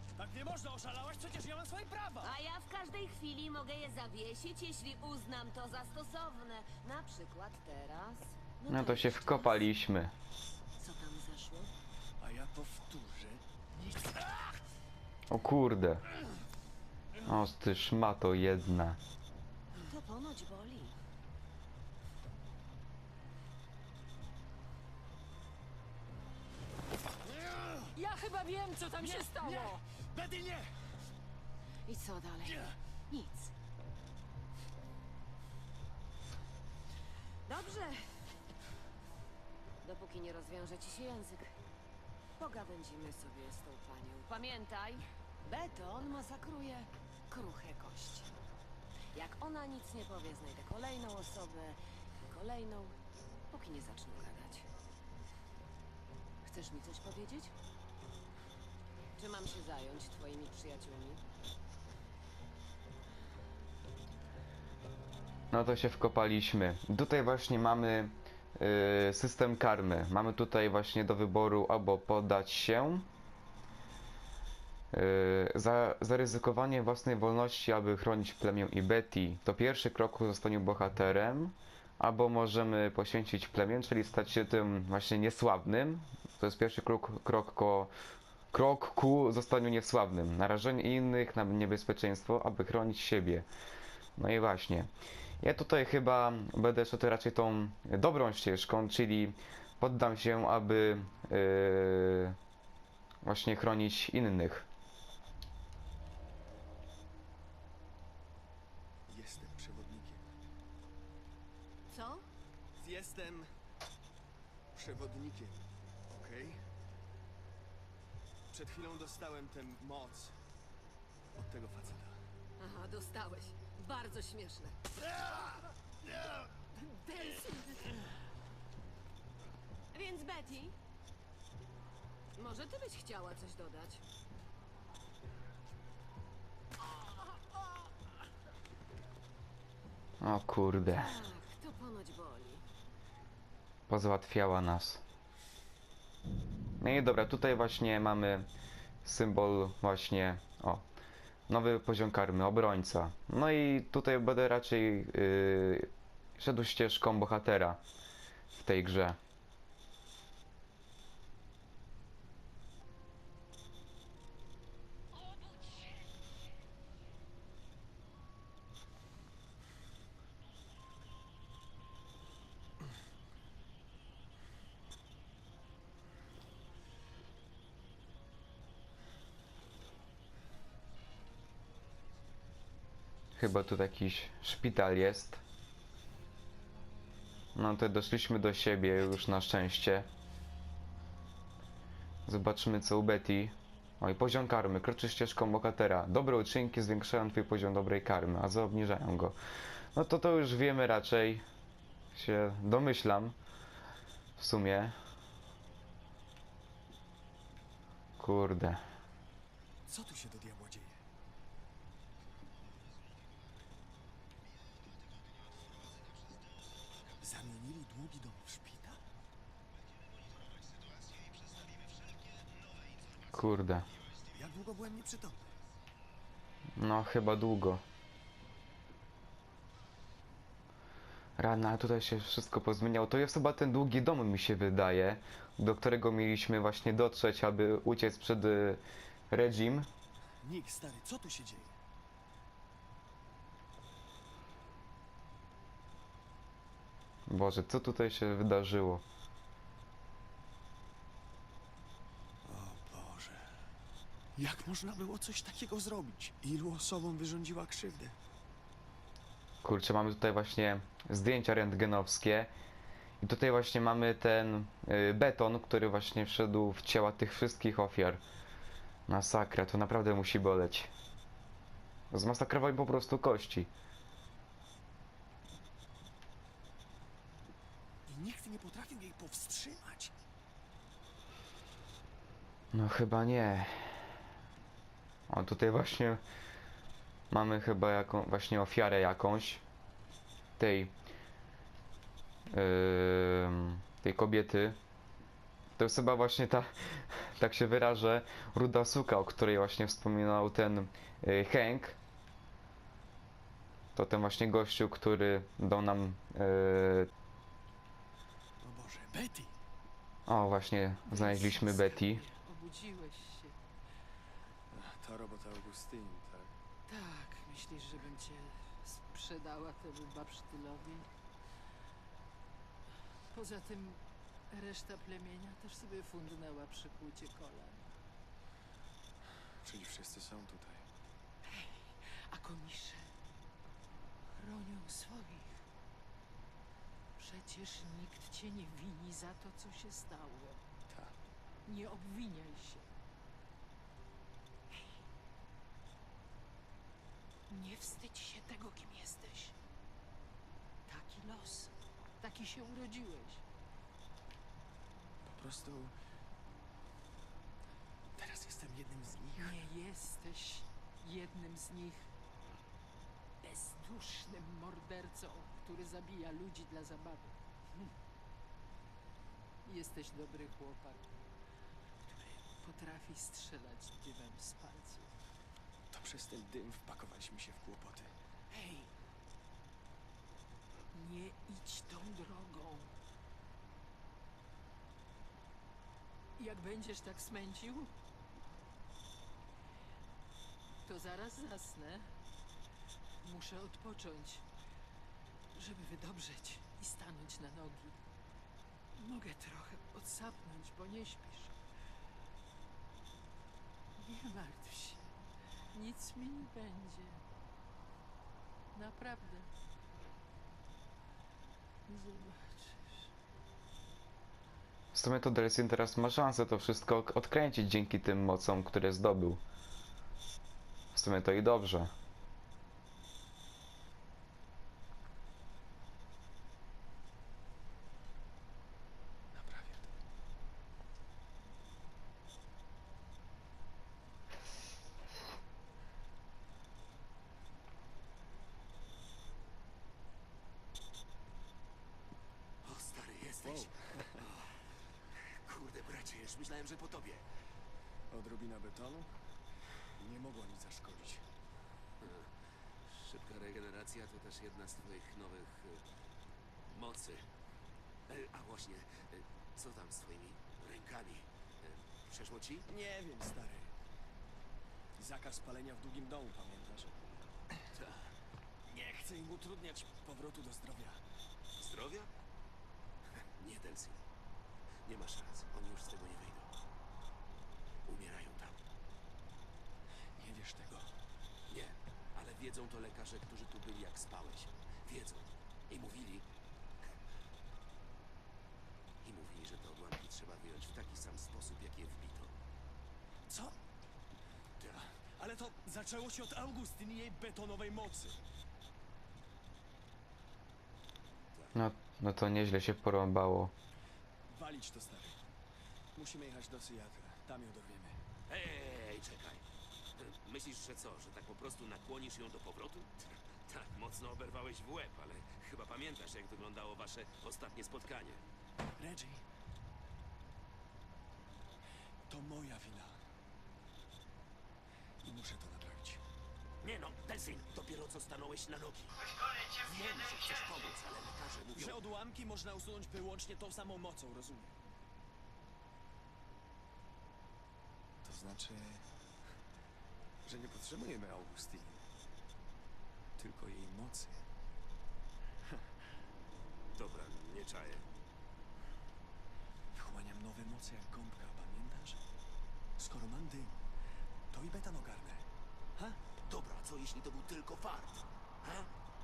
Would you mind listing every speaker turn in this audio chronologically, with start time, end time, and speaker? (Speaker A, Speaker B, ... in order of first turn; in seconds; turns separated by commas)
Speaker A: 0.1-2.4, Speaker B: 2.2-9.7, Speaker C: 8.7-10.1, Speaker B: 10.8-11.7, Speaker A: 12.2-14.5, Speaker C: 15.3-16.0, Speaker C: 17.2-19.0, Speaker B: 19.9-21.0, Speaker A: 27.4-27.9, Speaker D: 27.9-29.8, Speaker A: 29.0-30.8, Speaker B: 31.8-33.5, Speaker A: 32.5-32.7, Speaker B: 37.5-38.2, Speaker B: 39.8-41.5, Speaker B: 42.4-48.3, Speaker B: 49.1-51.8, Speaker B: 52.3-53.0, Speaker B: 53.5-54.7, Speaker B: 56.4-57.5, Speaker B: 59.2-61.2, Speaker C: 65.5-73.1, Speaker C: 74.9-87.9, Speaker C: 88.5-93.5, Speaker C: 94.2-94.9, Speaker C: 95.4-102.3, Speaker C: 103.2-104.7, Speaker A: 109.1-110.3, Speaker B: 111.9-112.2, Speaker A: 112.8-113.5, Speaker A: 114.7-116.6, Speaker A: 118.5-120.4, Speaker A: 121.3-122.2, Speaker B: 122.6-124.8, Speaker A: 125.1-125.4, Speaker B: 126.8-127.8, Speaker B: 129.9-130.7, Speaker B: 132.3-134.0, Speaker C: 140.2-141.1, Speaker B: 140.9-142.6, Speaker C: 143.9-145.0, Speaker C: 146.8-148.5, Speaker C: 149.0-150.8, Speaker C: 151.5-157.8, Speaker C: 158.5-159.2, Speaker C: 183.3-185.4, Speaker C: 187.5-190.1, Speaker C: 192.3-199.3, Speaker C: 199.9-201.4, Speaker C: 202.1-203.3, Speaker C: 204.4-204.9, Speaker C: 208.2-208.8, Speaker A: 209.9-211.0, Speaker A: 217.2-219.0, Speaker C: 223.3-223.9, Speaker A: 224.3-225.6, Speaker C: 226.8-227.8, Speaker C: 231.4-239.9, Speaker A: 240.4-241.8, Speaker C: 247.3-249.0, Speaker A: 252.4-253.6, Speaker A: 254.3-258.1, Speaker C: 259.6-262.5, Speaker C: 263.2-268.2, Speaker C: 269.1-270.9, Speaker C: 272.1-273.7, Speaker A: 278.1-280.1, Speaker C: 282.7-284.0, Speaker C: 285.3-286.2, Speaker C: 287.3-289.6, Speaker C: 290.6-290.9, Speaker C: 292.5-294.8, Speaker C: 295.8-302.0, Speaker C: 303.9-307.1, Speaker A: 308.6-309.5, Speaker C: 310.3-312.2, Speaker D: 311.1-313.6, Speaker A: 314.7-316.5, Speaker D: 316.9-321.1, Speaker D: 323.3-327.9, Speaker A: 329.6-330.8, Speaker D: 331.4-333.1, Speaker D: 334.4-335.6, Speaker D: 337.2-340.6, Speaker A: 340.9-341.1, Speaker D: 341.6-342.9, Speaker D: 347.5-349.5, Speaker D: 350.9-353.4, Speaker A: 355.2-355.9, Speaker A: 358.2-359.7, Speaker D: 359.3-362.1, Speaker D: 363.4-367.9, Speaker D: 369.6-371.0, Speaker D: 372.1-375.1, Speaker A: 375.9-378.1, Speaker D: 378.5-378.9, Speaker D: 380.9-382.9, Speaker D: 386.4-387.9, Speaker D: 390.8-392.1, Speaker D: 393.2-394.4, Speaker D: 395.5-398.0, Speaker D: 398.9-401.6, Speaker D: 404.0-405.1, Speaker D: 405.7-407.2, Speaker D: 408.7-409.5, Speaker D: 411.9-413.1, Speaker C: 414.9-419.4, Speaker C: 420.9-421.9, Speaker A: 429.3-429.8, Speaker E: 442.6-444.6, Speaker A: 443.4-444.2, Speaker E: 445.1-447.2, Speaker A: 448.1-449.1, Speaker A: 450.0-451.2, Speaker E: 452.0-452.3, Speaker E: 452.9-455.8, Speaker E: 456.7-457.3, Speaker E: 458.1-462.6, Speaker A: 462.7-463.7, Speaker A: 465.0-466.9, Speaker A: 468.7-471.0, Speaker E: 471.6-472.1, Speaker E: 473.4-474.0, Speaker E: 474.8-476.5, Speaker E: 477.9-478.6, Speaker A: 480.1-481.0, Speaker E: 481.5-486.2, Speaker E: 489.0-492.4, Speaker A: 493.3-493.6, Speaker A: 494.7-498.2, Speaker C: 501.5-503.5, Speaker A: 504.3-505.2, Speaker A: 505.9-508.0, Speaker E: 508.3-509.4, Speaker E: 510.0-518.2, Speaker A: 518.8-519.2, Speaker A: 522.1-523.0, Speaker A: 525.0-526.0, Speaker E: 526.6-531.8, Speaker A: 531.5-534.5, Speaker A: 538.0-538.9, Speaker A: 540.2-541.8, Speaker A: 543.2-544.2, Speaker E: 546.7-547.9, Speaker A: 549.7-552.0, Speaker A: 552.8-553.6, Speaker A: 554.3-556.0, Speaker E: 556.2-558.7